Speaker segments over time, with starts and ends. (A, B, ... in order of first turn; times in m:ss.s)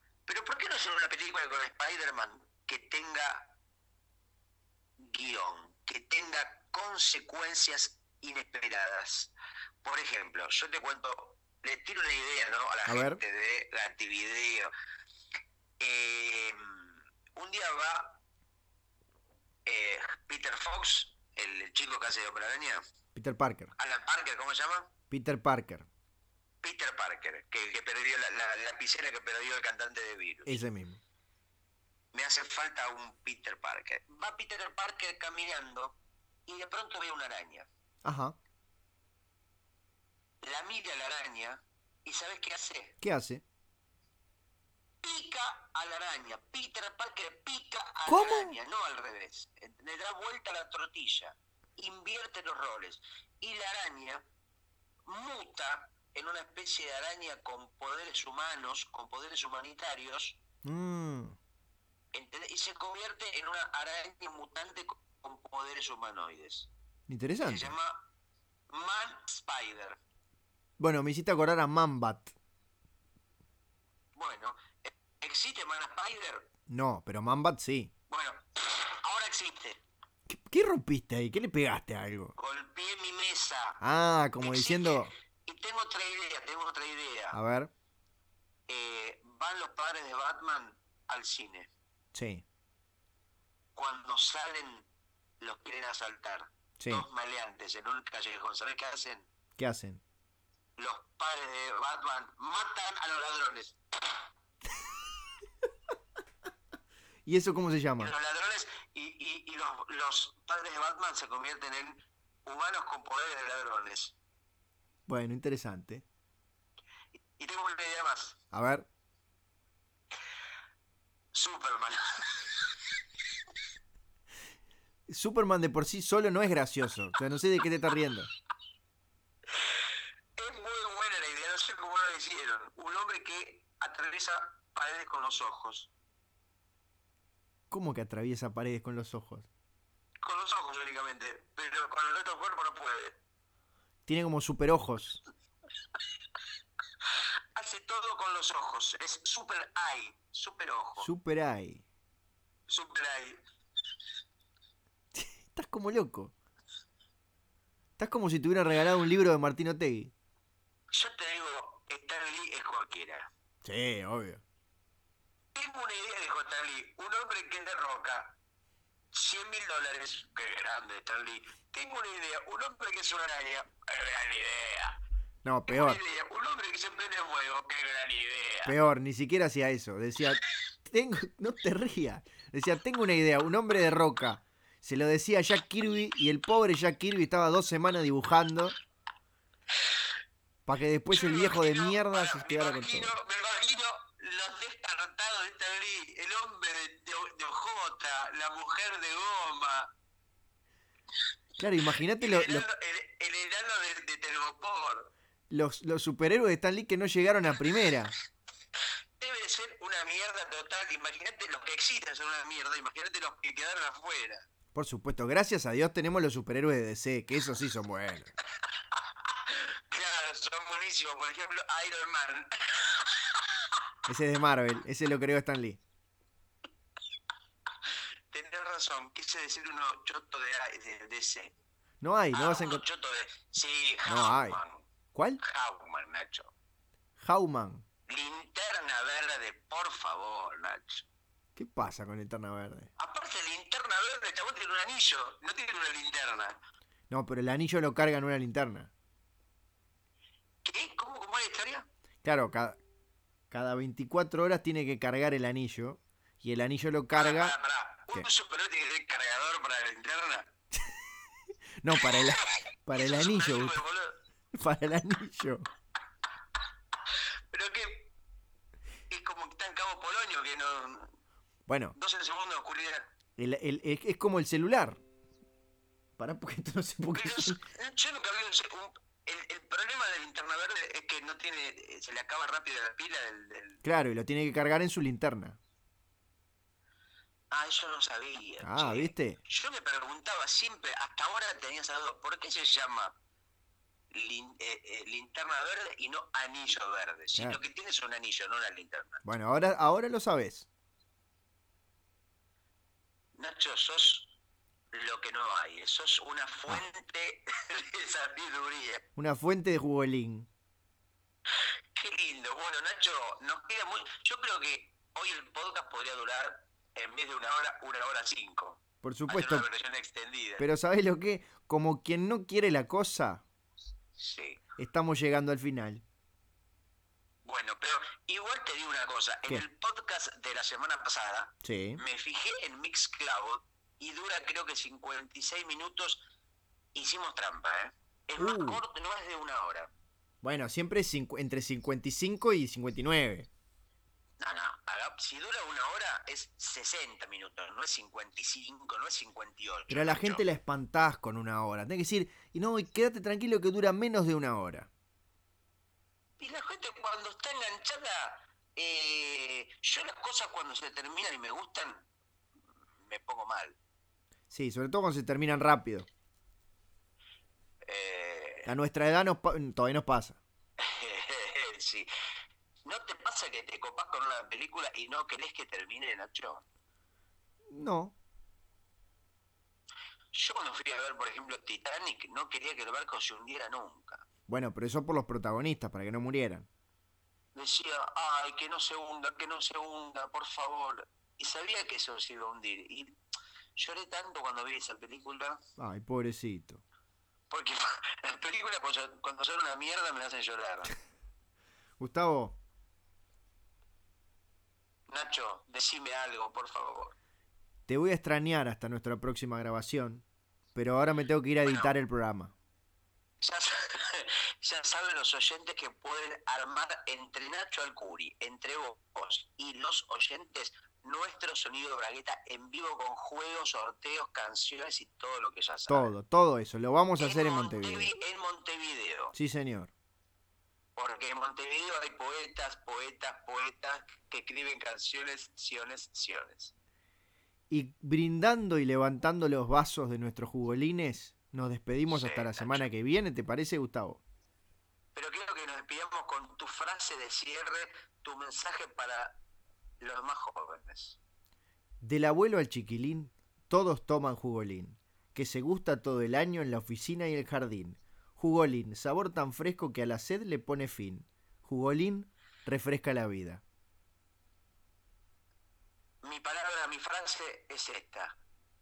0:00.3-0:03.5 A
0:05.0-0:09.3 A
0:09.8-0:14.7 A
0:12.9-0:13.2 B
0:15.8-0:16.8 A
0:17.4-0:18.2 A
0:19.6-0:22.8 A
0:23.1-0:23.7 B
0:23.8-0:24.9 A
0:25.1-0:25.9 B
0:26.6-0:30.6 A
0:30.4-0:31.0 B
0:32.1-0:36.0 A
0:36.5-0:37.7 A
0:38.0-0:38.4 B
0:40.4-0:42.9 A
0:43.0-0:43.4 B
0:45.0-0:54.2 A
0:48.0-0:48.6 B
0:55.0-1:00.4 A
1:00.6-1:01.4 B
1:02.1-1:06.7 A
1:07.1-1:07.7 B
1:07.4-1:08.1 A
1:08.7-1:10.0 A
1:10.8-1:12.3 B
1:14.1-1:16.5 A
1:16.7-1:17.9 B
1:18.1-1:19.8 A
1:20.3-1:22.3 B
1:22.4-1:23.8 A
1:23.8-1:25.1 B
1:24.4-1:27.4 A
1:27.3-1:27.7 B
1:28.7-1:31.7 A
1:32.1-1:32.4 B
1:33.7-1:34.9 A
1:35.4-1:39.3 A
1:36.8-1:37.0 B
1:39.6-1:40.0 B
1:40.8-1:43.8 A
1:47.2-1:48.1 B
1:48.0-1:54.1 A
1:55.1-1:56.0 B
1:57.2-1:58.4 A
1:58.5-1:58.9 B
2:01.3-2:02.7 A
2:05.1-2:08.3 B
2:10.4-2:15.9 A
2:17.7-2:19.5 B
2:20.2-2:23.2 A
2:24.0-2:25.2 B
2:27.5-2:31.1 A
2:31.0-2:31.8 B
2:32.7-2:33.4 A
2:35.1-2:36.3 B
2:38.0-2:40.1 B
2:40.9-2:43.3 A
2:43.6-2:44.4 B
2:45.5-2:48.4 A
2:49.1-2:55.0 A
2:55.4-2:56.0 B
2:55.7-2:58.8 A
2:58.6-3:08.8 B
3:10.6-3:13.1 B
3:11.1-3:19.9 A
3:21.6-3:22.6 B
3:22.1-3:25.1 A
3:25.5-3:28.1 B
3:29.2-3:34.4 A
3:34.7-3:38.3 B
3:38.9-3:43.7 A
3:44.1-3:45.8 B
3:48.3-3:51.5 A
3:52.0-3:52.8 B
3:52.3-3:54.9 A
3:54.0-3:54.6 B
3:55.1-3:55.4 B
3:55.4-3:56.5 A
3:57.2-3:57.8 B
3:58.1-4:01.0 A
4:01.6-4:02.9 B
4:03.0-4:06.6 A
4:07.1-4:08.9 B
4:10.6-4:11.9 A
4:12.2-4:12.8 B
4:13.5-4:17.6 B
4:17.1-4:20.5 A
4:21.8-4:23.8 B
4:21.9-4:24.2 A
4:24.5-4:25.7 B
4:27.5-4:28.1 A
4:29.1-4:31.1 A
4:31.7-4:31.9 B
4:31.9-4:33.1 A
4:33.4-4:35.0 B
4:36.2-4:37.6 B
4:37.1-4:43.8 A
4:43.8-4:45.6 B
4:47.5-4:53.1 A
4:48.6-4:49.4 B
4:54.1-4:59.2 A
4:59.2-5:00.7 B
5:03.4-5:04.3 A
5:04.9-5:09.0 A
5:09.2-5:10.5 B
5:11.9-5:20.6 A
5:19.0-5:19.6 B
5:20.6-5:23.4 B
5:24.2-5:24.6 A
5:24.8-5:26.0 B
5:27.4-5:36.2 A
5:31.6-5:32.0 B
5:36.9-5:39.9 A
5:38.4-5:38.8 B
5:40.4-5:43.5 B
5:44.4-5:50.4 A
5:49.9-5:54.9 B
5:56.4-6:02.1 A
6:03.0-6:03.8 A
6:04.5-6:06.1 B
6:07.8-6:08.7 A
6:08.6-6:10.4 B
6:10.8-6:12.1 A
6:12.8-6:16.6 A
6:17.7-6:18.2 B
6:20.3-6:24.2 A
6:24.5-6:26.7 B
6:27.5-6:33.2 A
6:33.8-6:35.6 A
6:35.8-6:36.8 B
6:37.5-6:40.9 A
6:42.0-6:42.6 B
6:45.1-6:47.2 A
6:47.9-6:52.5 B
6:51.6-6:51.9 A
6:53.4-7:06.1 A
7:05.9-7:08.2 B
7:07.2-7:09.3 A
7:09.3-7:09.9 B
7:11.0-7:16.7 A
7:17.7-7:24.2 B
7:22.1-7:22.9 A
7:25.1-7:29.4 A
7:30.0-7:31.2 A
7:32.0-7:43.6 B
7:46.2-7:48.4 A